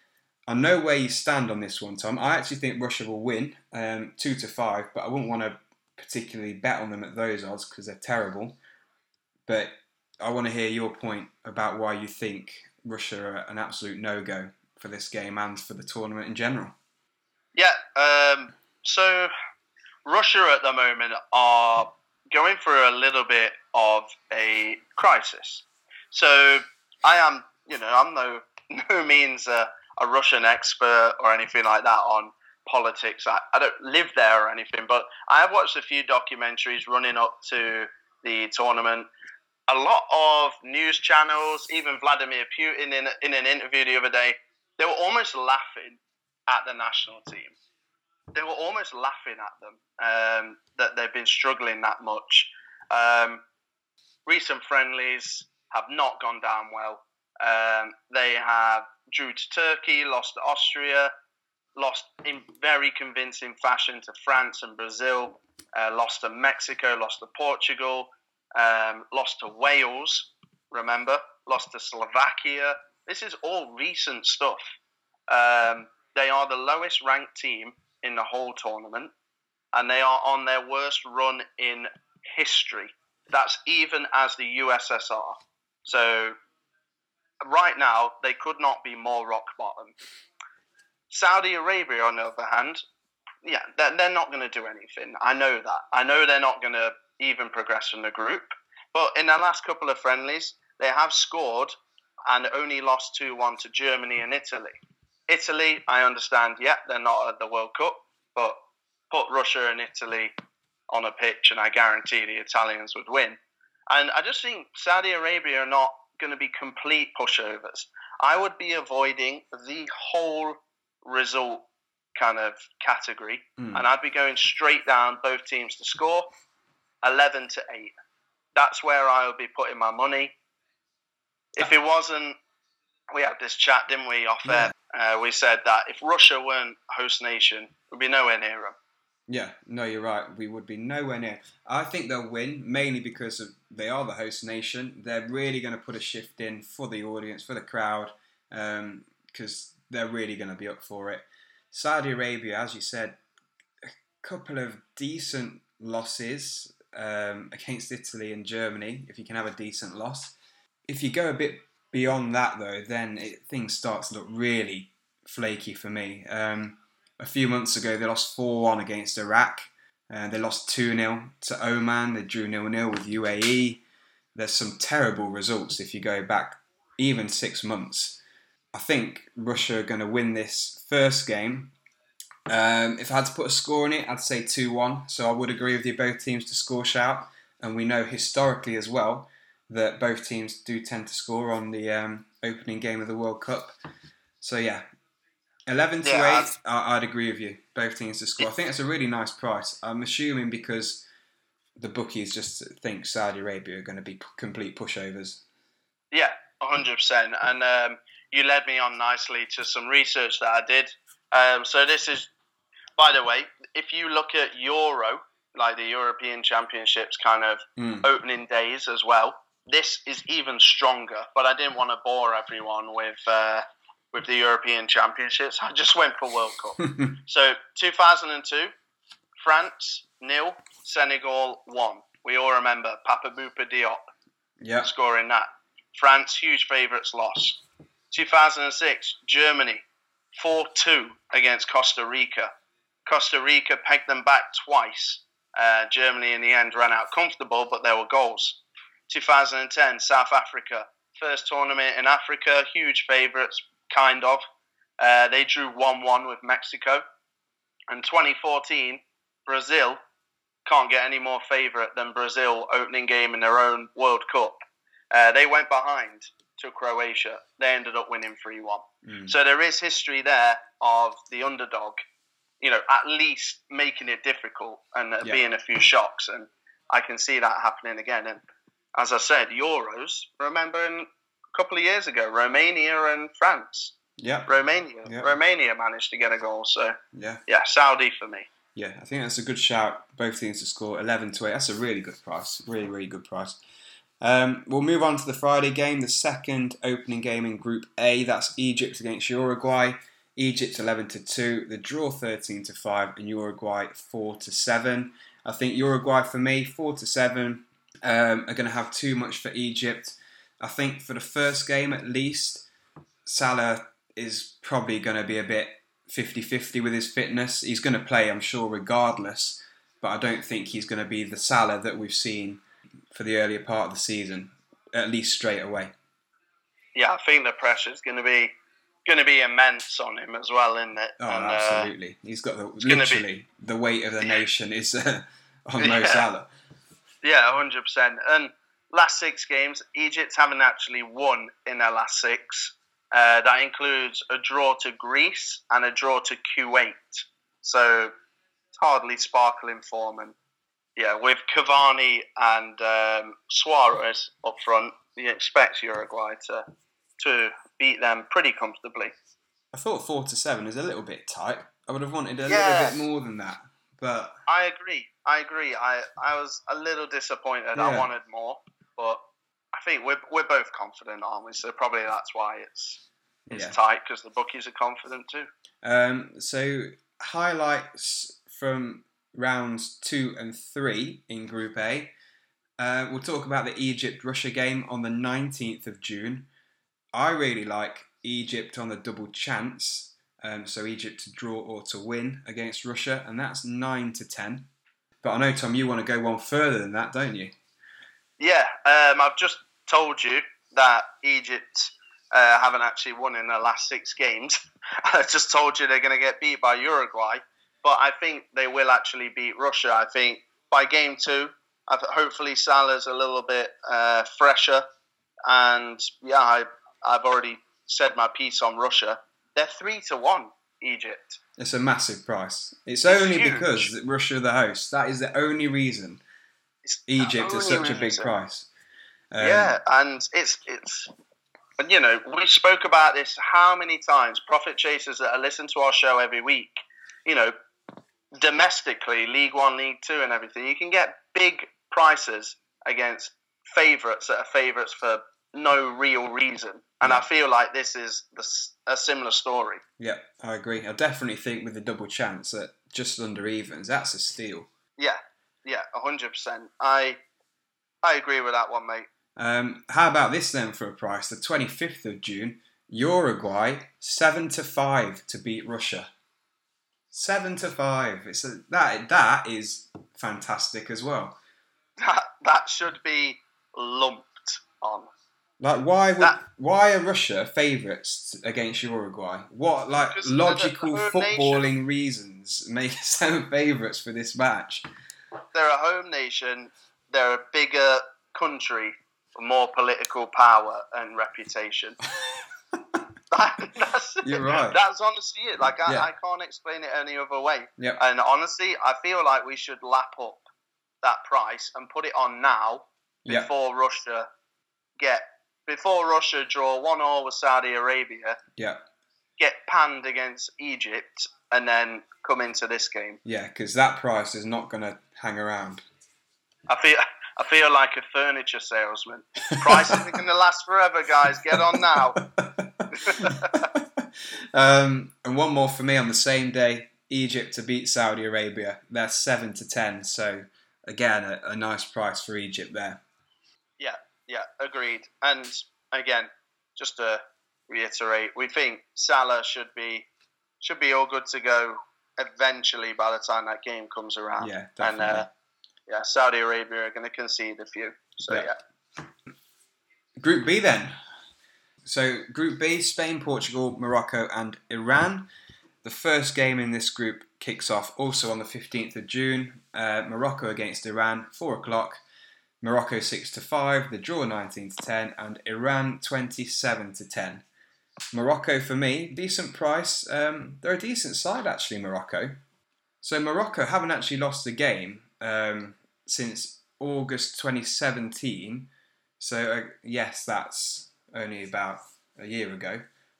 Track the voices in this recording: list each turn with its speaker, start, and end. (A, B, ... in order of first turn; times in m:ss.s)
0:00.5-0:08.6 A
0:09.5-0:16.7 A
0:17.5-0:19.3 B
0:20.0-0:39.1 B
0:39.7-0:47.6 B
0:48.3-0:53.4 B
0:54.2-1:01.1 B
1:01.8-1:14.6 B
1:15.3-1:19.1 B
1:19.7-1:26.4 B
1:27.4-1:29.9 B
1:31.1-1:32.8 B
1:33.4-1:41.7 B
1:42.3-1:44.8 B
1:45.3-1:48.6 B
1:49.1-1:50.3 B
1:50.9-1:53.4 B
1:53.9-2:06.3 B
2:03.6-2:03.8 A
2:07.0-2:07.9 B
2:08.6-2:10.3 B
2:11.6-2:12.4 B
2:13.1-2:18.8 B
2:14.4-2:14.7 A
2:19.3-2:33.2 A
2:33.8-2:40.3 A
2:40.8-2:53.8 A
2:54.3-2:58.2 A
2:58.7-3:01.7 A
3:02.5-3:13.8 A
3:14.4-3:14.8 A
3:15.7-3:21.0 A
3:16.0-3:16.5 B
3:21.8-3:25.4 A
3:26.1-3:32.3 B
3:33.0-3:48.7 B
3:37.8-3:38.1 A
3:46.8-3:47.2 A
3:49.4-3:54.0 B
3:54.6-3:54.9 A
3:54.8-3:57.6 B
3:58.1-3:59.8 B
4:00.3-4:02.5 B
4:03.0-4:14.4 B
4:15.0-4:17.0 B
4:17.9-4:20.0 B
4:20.6-4:24.6 B
4:25.1-4:32.0 B
4:29.0-4:29.3 A
4:32.6-4:38.4 B
4:39.0-4:43.9 B
4:44.2-4:44.5 A
4:44.5-4:48.5 B
4:45.0-4:45.4 A
4:47.1-4:47.4 A
4:48.7-4:53.6 A
4:54.2-5:12.7 A
5:13.2-5:25.9 A
5:26.9-5:28.5 B
5:29.0-5:31.9 B
5:31.2-5:36.5 A
5:32.8-5:33.2 B
5:35.8-5:36.2 B
5:37.2-5:48.1 B
5:48.7-5:50.3 B
5:51.0-5:56.6 B
5:57.2-5:59.1 B
5:59.7-6:04.4 A
6:02.5-6:03.0 B
6:04.5-6:09.2 B
6:07.8-6:08.1 A
6:09.7-6:15.5 B
6:13.5-6:13.8 A
6:15.8-6:22.1 A
6:22.8-6:26.5 A
6:27.1-6:34.7 A
6:35.2-6:37.5 A
6:38.4-6:54.8 B
6:55.5-7:01.4 B
7:01.6-7:06.2 A
7:03.1-7:03.9 B
7:06.8-7:08.3 B
7:07.1-7:08.7 A
7:09.3-7:09.7 A
7:09.4-7:11.1 B
7:11.8-7:17.5 B
7:18.4-7:29.8 B
7:30.0-7:34.7 A
7:35.0-7:37.2 B
7:38.0-7:39.1 B
7:39.4-7:46.1 A
7:47.1-7:51.4 A
7:52.0-7:55.1 B
7:55.6-8:04.8 A
8:00.1-8:01.6 B
8:05.5-8:12.0 B
8:12.2-8:13.0 A
8:13.3-8:20.4 B
8:14.2-8:14.8 A
8:21.0-8:24.3 B
8:23.2-8:23.5 A
8:25.0-8:28.4 B
8:28.6-8:28.8 A
8:29.4-8:33.2 B
8:33.2-8:35.8 A
8:36.7-8:42.2 B
8:39.7-8:40.0 A
8:41.5-8:53.0 A
8:42.9-8:43.7 B
8:53.8-9:00.1 B
9:00.6-9:05.3 B
9:04.4-9:05.3 A
9:05.9-9:08.6 B
9:10.2-9:11.0 A
9:11.8-9:15.3 A
9:15.8-9:22.0 A
9:22.6-9:27.4 A
9:28.1-9:32.4 A
9:33.0-9:42.8 A